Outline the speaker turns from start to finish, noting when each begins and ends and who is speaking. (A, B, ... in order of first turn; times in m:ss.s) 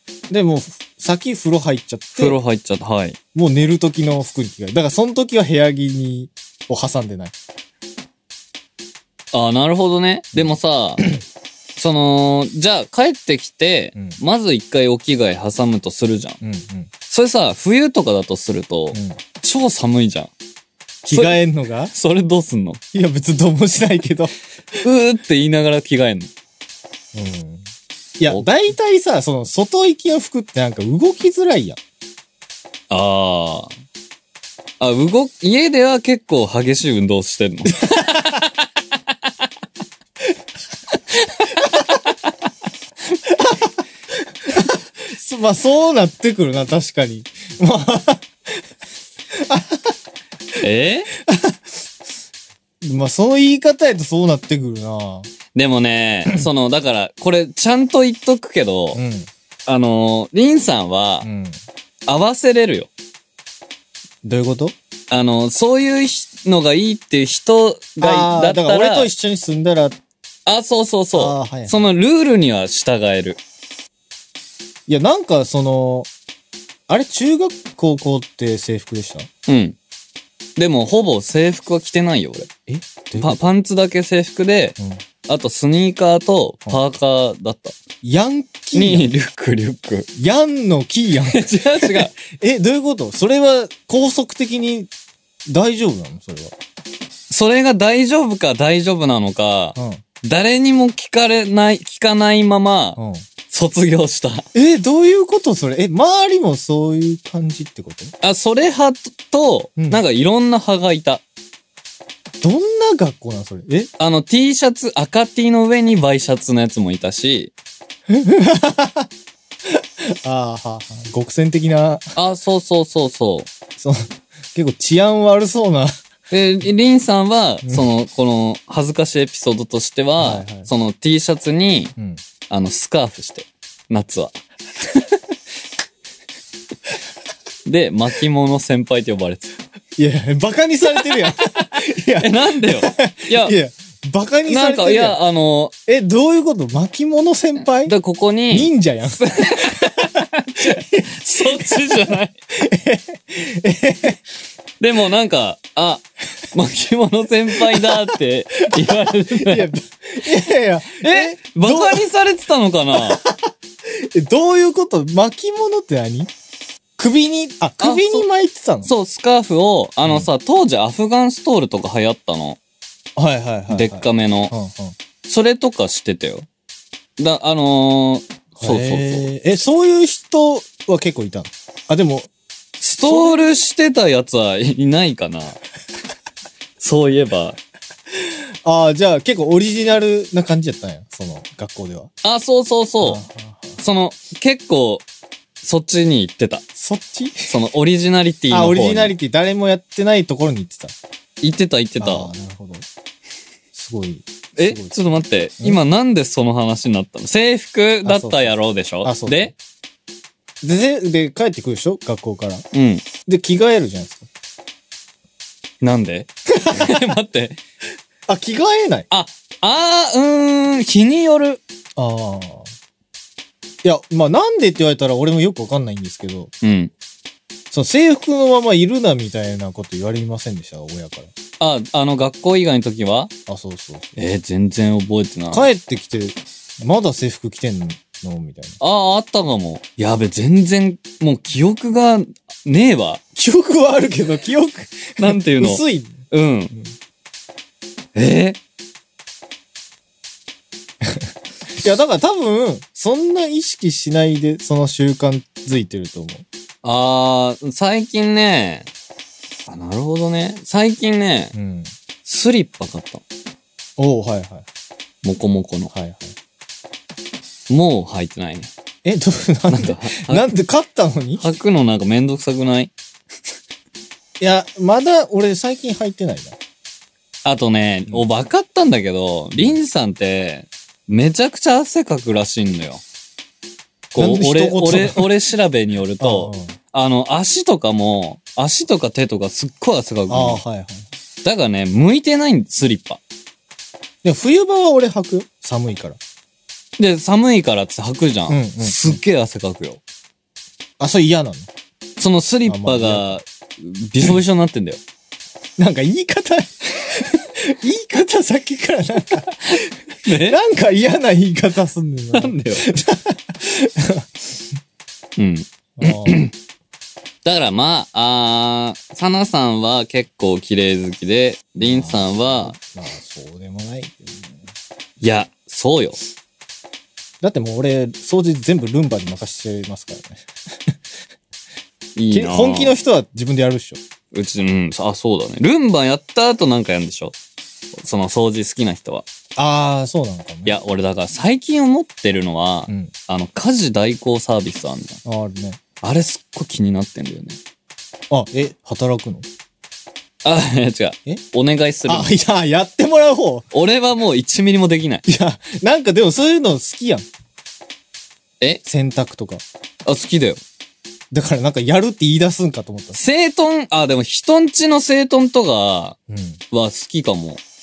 0:00.3-0:02.4 A
0:02.1-0:03.2 B
0:03.3-0:07.3 A
0:09.3-0:11.1 B
0:10.3-0:11.2 A
0:11.8-0:16.4 B
0:13.9-0:14.2 A
0:16.4-0:16.9 A
0:17.1-0:20.3 B
0:18.9-0:19.2 A
0:21.0-0:21.9 A
0:21.1-0:21.4 B
0:21.9-0:22.8 B
0:22.9-0:24.3 A
0:24.8-0:26.3 B
0:27.1-0:27.7 A
0:28.2-0:31.8 A
0:32.9-0:33.7 B
0:34.8-0:38.4 B
0:41.6-0:42.0 A
0:43.2-0:48.6 A
0:49.3-0:49.9 A
0:50.6-0:51.1 B
0:51.1-0:51.8 A
0:52.8-0:55.3 A
0:55.5-0:59.0 B
0:58.9-0:59.3 A
0:59.6-1:01.3 B
1:01.2-1:01.6 A
1:02.1-1:02.9 B
1:04.2-1:04.7 A
1:05.1-1:09.1 B
1:08.0-1:10.0 A
1:10.4-1:13.4 B
1:11.1-1:11.9 A
1:14.9-1:16.1 A
1:16.9-1:19.3 A
1:19.5-1:19.8 B
1:20.6-1:22.5 B
1:22.7-1:23.5 A
1:23.2-1:24.8 B
1:24.8-1:25.0 A
1:25.3-1:27.8 B
1:28.0-1:29.1 A
1:28.7-1:30.1 B
1:30.2-1:34.9 A
1:31.2-1:32.1 B
1:35.5-1:36.5 A
1:37.3-1:44.5 B
1:39.8-1:40.0 A
1:43.0-1:43.2 A
1:44.5-1:48.1 A
1:48.2-1:51.2 B
1:49.8-1:50.0 A
1:52.4-1:53.9 A
1:54.0-1:57.5 B
1:58.1-1:59.1 A
1:59.6-2:02.1 A
2:02.1-2:03.5 B
2:03.8-2:05.9 A
2:06.3-2:11.9 B
2:10.2-2:10.7 A
2:12.5-2:15.0 B
2:17.6-2:19.5 B
2:20.0-2:25.2 A
2:22.2-2:23.5 B
2:24.5-2:25.7 B
2:25.9-2:28.0 A
2:27.8-2:32.4 B
2:28.5-2:34.2 A
2:34.8-2:39.7 B
2:37.6-2:38.1 A
2:38.8-2:42.0 A
2:40.9-2:43.2 B
2:43.0-2:46.3 A
2:47.0-2:48.9 A
2:47.8-2:48.2 B
2:48.8-2:52.6 B
2:53.2-2:55.0 A
2:53.7-2:54.5 B
2:55.2-2:56.5 B
2:57.2-2:59.3 B
2:58.6-3:02.3 A
3:02.8-3:05.6 B
3:03.0-3:03.4 A
3:06.8-3:07.6 B
3:08.3-3:12.1 A
3:12.2-3:13.2 B
3:13.0-3:13.8 A
3:13.8-3:15.0 B
3:15.6-3:16.6 B
3:16.8-3:17.5 A
3:17.5-3:19.1 B
3:18.5-3:20.9 A
3:21.4-3:22.3 B
3:22.0-3:22.8 A
3:23.7-3:24.9 A
3:24.6-3:29.5 B
3:28.0-3:29.5 A
3:30.6-3:32.6 A
3:32.7-3:33.0 B
3:33.2-3:34.3 A
3:35.8-3:37.6 B
3:36.5-3:37.0 A
3:38.3-3:39.1 A
3:39.1-3:41.6 B
3:42.0-3:42.7 A
3:43.8-3:46.5 A
3:46.6-3:46.9 B
3:47.7-3:51.3 A
3:51.6-3:53.3 B
3:53.5-3:54.2 A
3:54.2-3:55.7 B
3:55.5-3:58.8 A
3:58.8-4:03.2 B
4:03.4-4:06.2 A
4:05.2-4:06.7 B
4:08.1-4:08.6 B
4:11.7-4:16.4 A
4:16.8-4:18.9 B
4:19.7-4:21.5 B
4:21.5-4:21.9 A
4:22.2-4:23.2 B
4:24.0-4:24.6 A
4:25.2-4:25.9 B
4:25.9-4:26.3 A
4:27.7-4:28.7 B
4:29.0-4:31.5 A
4:29.7-4:30.5 B
4:31.4-4:32.9 B
4:34.4-4:36.6 A
4:37.4-4:43.0 B
4:44.1-4:50.6 B
4:44.2-4:45.3 A
4:46.2-4:46.8 A
4:50.3-4:51.1 A
4:51.4-4:53.2 B
4:54.2-4:56.2 A
4:57.0-5:00.0 B
4:58.5-4:59.2 A
5:01.0-5:01.7 A
5:02.2-5:05.0 B
5:02.6-5:03.4 A
5:05.8-5:14.6 A
5:09.7-5:10.6 B
5:12.3-5:12.9 B
5:15.4-5:16.5 B
5:16.0-5:16.4 A
5:17.4-5:22.8 B
5:21.8-5:24.7 A
5:25.2-5:26.2 B
5:27.4-5:30.9 A
5:32.2-5:33.0 B
5:32.3-5:34.0 A
5:34.3-5:37.3 B
5:38.0-5:39.2 B
5:39.6-5:40.8 A
5:40.6-5:45.2 B
5:45.2-5:45.8 A
5:46.0-5:47.6 B
5:48.3-5:49.5 A
5:50.4-5:52.3 B
5:52.1-5:53.7 A
5:53.7-5:55.2 B
5:55.2-5:57.3 A
5:58.8-5:59.6 A
6:00.0-6:00.6 B
6:01.3-6:03.2 A
6:03.1-6:06.2 B
6:06.3-6:06.6 A
6:06.7-6:07.6 B